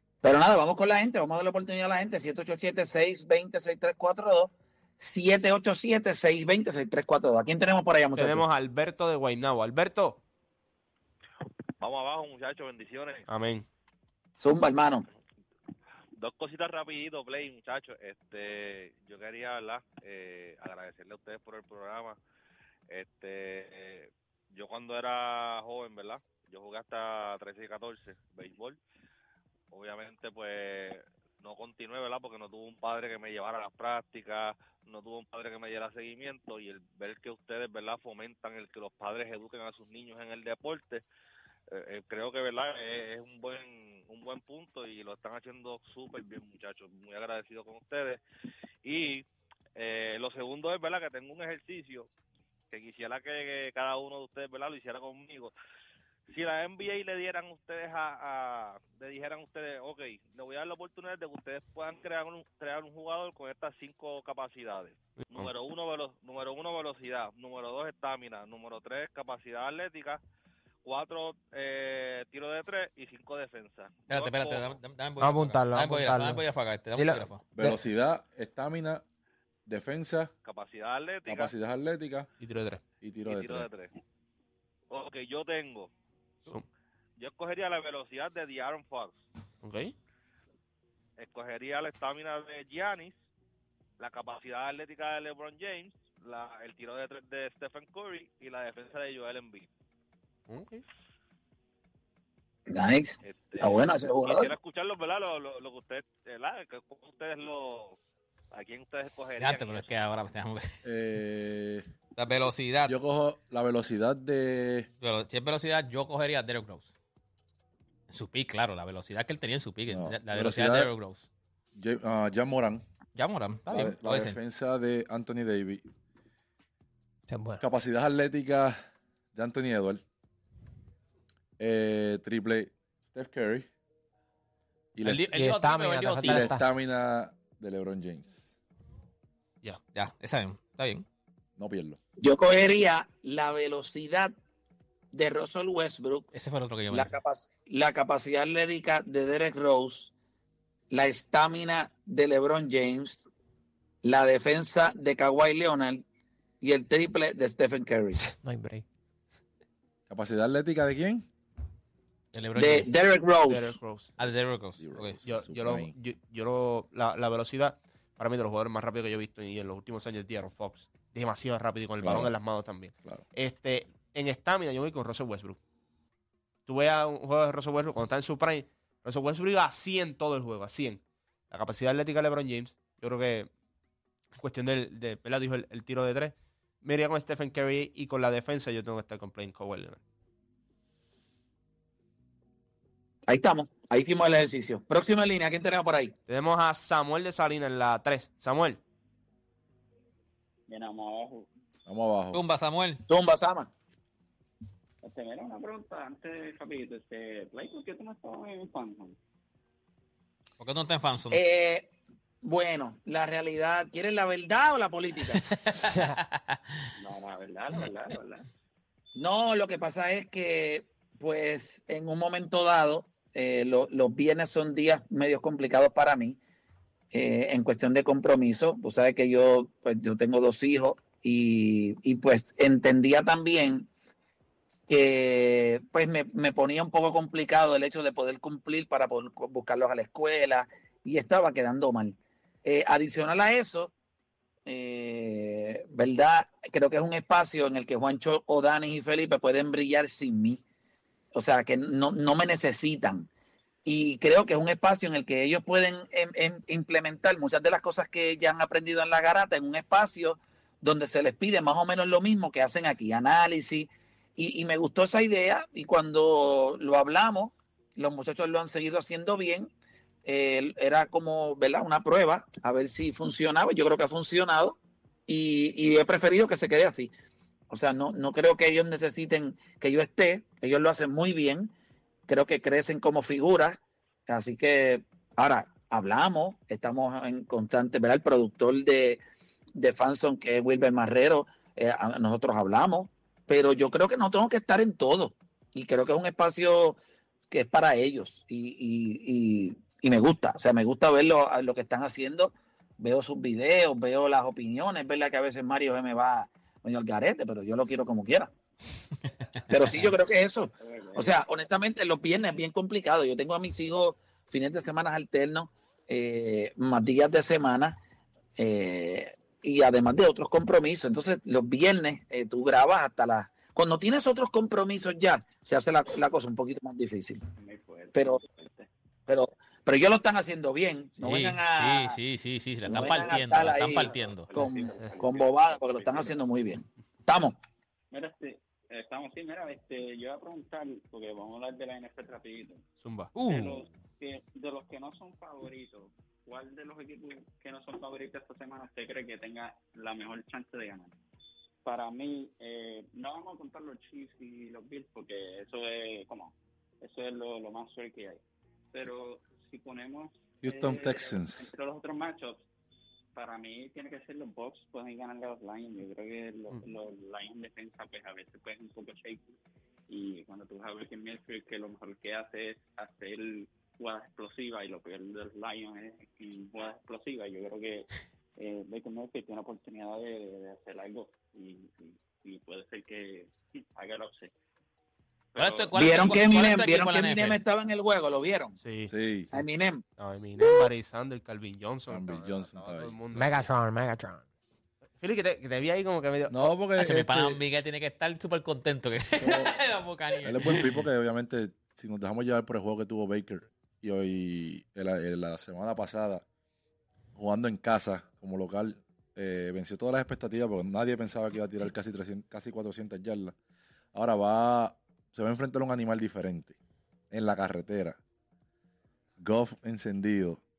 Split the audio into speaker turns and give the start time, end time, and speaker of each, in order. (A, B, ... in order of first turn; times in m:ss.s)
0:00.2-0:08.4 A
0:08.1-0:10.2 B
0:11.8-0:13.2 C
0:13.3-0:13.6 B
0:14.4-0:15.0 A
0:16.2-0:22.2 C
0:22.9-0:28.8 C
0:29.7-0:41.0 C
0:41.7-0:48.2 C
0:48.8-0:49.2 C
0:49.8-0:52.1 C
0:52.7-0:55.5 C
0:56.3-1:10.2 C
1:05.2-1:05.5 B
1:10.8-1:14.7 C
1:14.1-1:17.4 D
1:15.2-1:16.4 E
1:17.0-1:17.8 E
1:17.6-1:19.0 F
1:19.6-1:20.3 F
1:20.4-1:21.5 C
1:21.2-1:22.3 F
1:22.4-1:22.8 B
1:23.0-1:23.7 F
1:23.3-1:23.9 C
1:24.9-1:25.9 C
1:27.2-1:29.2 C
1:29.6-1:29.9 B
1:31.2-1:33.1 C
1:34.0-1:39.7 C
1:40.5-1:40.8 B
1:42.7-1:44.5 A
1:43.2-1:48.0 C
1:48.5-1:49.9 C
1:49.4-1:50.7 D
1:50.8-1:51.8 F
1:52.2-1:53.0 D
1:52.8-1:54.9 F
1:55.0-1:56.9 D
1:58.1-2:01.3 D
1:59.9-2:00.9 F
2:01.7-2:02.8 F
2:03.1-2:04.4 D
2:03.7-2:05.8 F
2:07.3-2:07.6 E
2:07.6-2:08.8 F
2:09.3-2:10.0 F
2:11.6-2:13.6 F
2:15.0-2:15.3 F
2:15.0-2:16.6 D
2:15.3-2:16.6 E
2:16.2-2:18.6 F
2:19.9-2:21.0 D
2:21.6-2:22.0 F
2:22.2-2:24.3 A
2:25.1-2:26.3 A
2:26.3-2:27.2 D
2:26.9-2:30.1 A
2:30.9-2:33.2 A
2:34.0-2:36.0 A
2:36.6-2:38.2 A
2:38.2-2:38.8 E
2:40.1-2:41.2 F
2:42.3-2:42.9 D
2:42.6-2:43.8 A
2:43.5-2:44.1 B
2:44.2-2:45.2 D
2:44.2-2:45.9 F
2:45.2-2:55.6 B
2:52.0-2:52.3 F
2:56.6-3:03.5 B
3:04.3-3:10.0 B
3:13.3-3:16.1 A
3:16.3-3:18.8 B
3:20.7-3:21.5 G
3:21.8-3:22.4 F
3:22.3-3:23.0 D
3:23.1-3:23.7 A
3:25.0-3:29.2 G
3:30.6-3:31.4 D
3:31.3-3:31.9 A
3:32.4-3:35.4 A
3:35.5-3:36.6 D
3:37.0-3:38.5 G
3:39.2-3:46.4 A
3:47.1-3:53.9 A
3:54.9-4:03.9 A
4:04.6-4:10.6 A
4:11.3-4:13.3 A
4:13.8-4:29.7 A
4:30.2-4:37.1 A
4:37.7-4:41.7 A
4:42.3-4:49.2 A
4:49.8-4:57.0 A
4:57.5-5:08.5 A
5:09.7-5:18.0 A
5:10.8-5:11.4 G
5:18.6-5:27.4 A
5:27.5-5:28.9 G
5:28.1-5:28.4 A
5:29.3-5:32.2 A
5:31.2-5:34.5 D
5:32.8-5:37.6 A
5:32.9-5:36.4 G
5:38.1-5:42.9 G
5:43.0-5:43.3 B
5:43.3-5:43.8 D
5:43.4-5:51.1 G
5:51.8-5:58.4 G
5:58.9-6:02.6 G
6:00.6-6:01.7 F
6:03.3-6:09.5 G
6:10.1-6:24.5 G
6:25.5-6:26.3 G
6:25.6-6:27.6 D
6:25.9-6:28.8 A
6:28.8-6:29.1 B
6:29.1-6:29.6 F
6:29.5-6:30.0 A
6:30.2-6:33.7 B
6:32.1-6:33.2 F
6:33.3-6:34.4 E
6:35.2-6:36.7 B
6:36.5-6:37.6 F
6:37.0-6:41.0 D
6:39.4-6:39.8 F
6:40.4-6:46.4 F
6:47.4-6:53.5 F
6:54.1-6:56.8 F
6:57.3-6:58.2 F
6:59.4-7:00.6 F